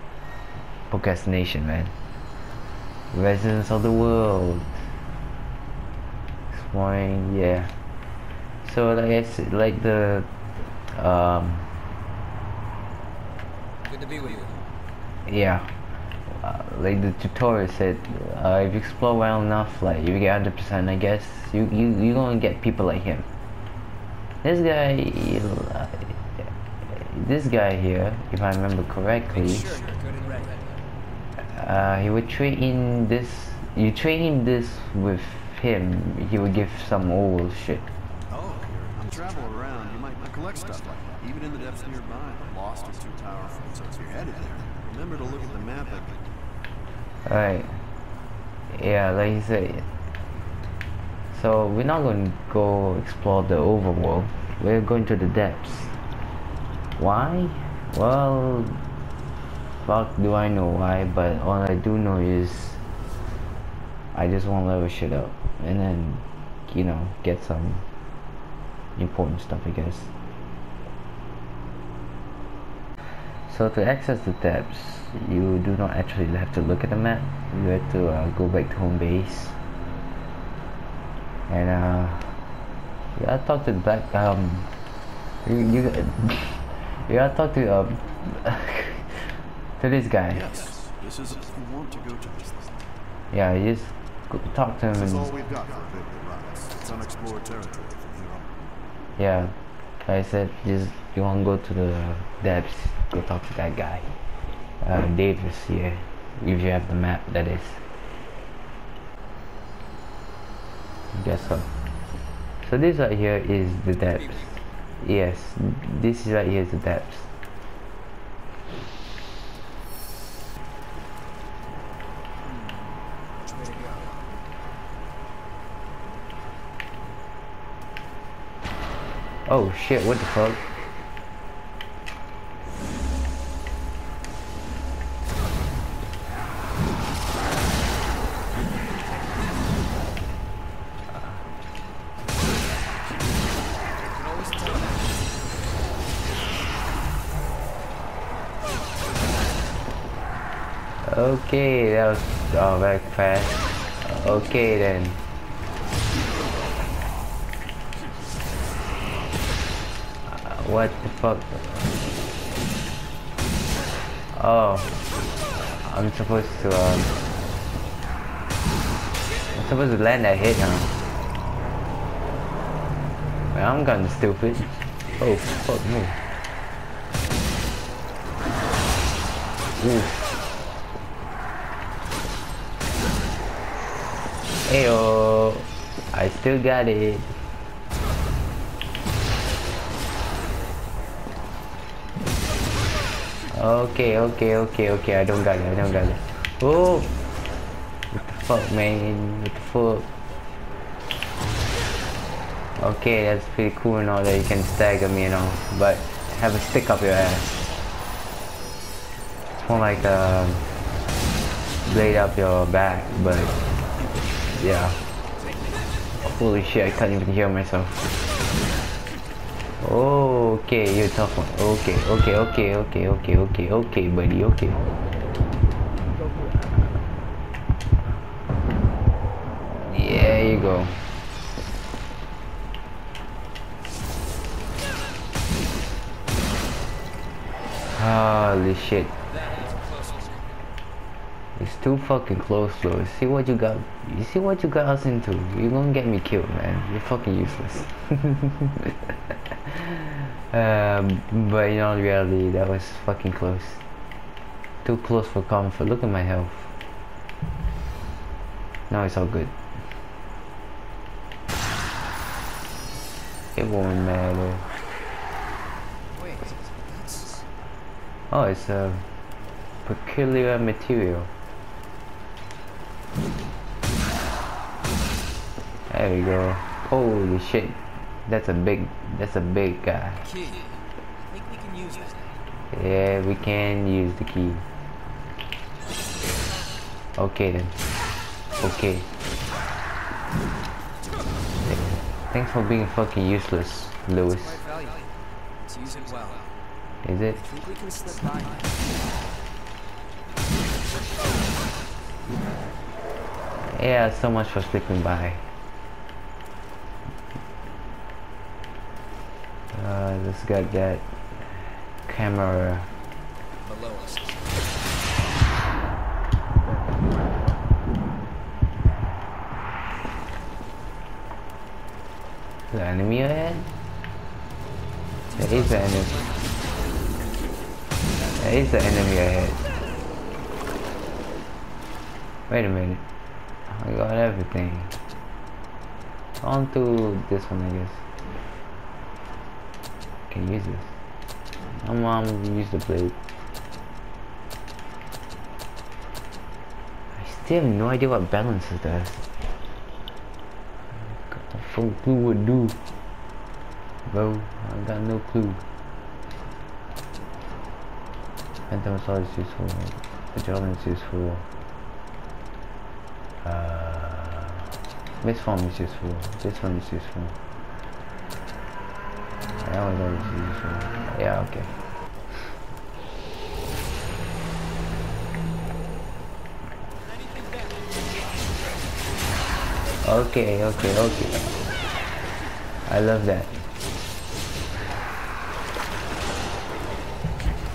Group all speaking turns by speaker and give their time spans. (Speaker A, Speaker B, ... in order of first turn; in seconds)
Speaker A: 0.9-1.9, 3.1-4.8, 6.5-7.7, 8.6-11.7, 15.2-15.7, 16.3-23.3, 24.4-29.7, 31.4-37.9, 47.2-47.8, 48.7-49.9, 51.3-56.0, 57.0-58.8, 59.8-62.8, 64.1-67.8, 69.0-70.1, 73.5-79.5, 81.5-82.4, 83.2-84.7, 85.4-90.5, 93.3-95.3, 99.2-104.1, 104.8-107.8, 111.1-111.7, 112.6-117.3, 129.4-130.9, 151.0-155.2, 160.2-161.9, 164.3-164.9, 165.8-167.1, 169.5-170.9, 173.5-176.2, 179.8-180.2, 184.7-187.4, 193.5-197.1, 198.1-200.1, 202.8-207.6, 209.6-210.7, 211.8-213.6, 214.5-215.0, 216.2-218.1, 219.8-224.8, 229.8-231.0, 237.9-239.1, 241.6-248.9, 249.7-253.8, 254.8-256.7, 258.9-259.5, 263.5-264.7, 268.3-269.1, 269.8-271.3, 275.9-280.2, 282.7-284.6, 287.1-287.7, 288.6-289.1, 291.6-294.6, 297.0-297.4, 303.7-305.4, 309.7-312.9, 322.7-323.7, 325.4-326.2, 328.4-329.6, 332.5-333.0, 333.7-334.9, 336.4-338.0, 340.3-340.9, 341.7-343.1, 347.1-349.2, 350.9-352.8, 354.1-355.6, 358.7-361.4, 363.4-364.6, 365.2-367.4, 369.6-371.7, 380.0-381.4, 382.9-383.5
Speaker B: 13.9-14.6, 29.3-30.8, 38.3-38.7, 123.4-124.2, 144.1-145.0, 239.4-240.3, 266.1-267.4, 280.2-280.7, 281.3-282.3, 294.6-295.1, 295.7-296.5, 297.4-298.7, 313.6-314.7, 325.3-326.5
Speaker C: 38.6-46.2, 90.3-92.8, 94.9-98.5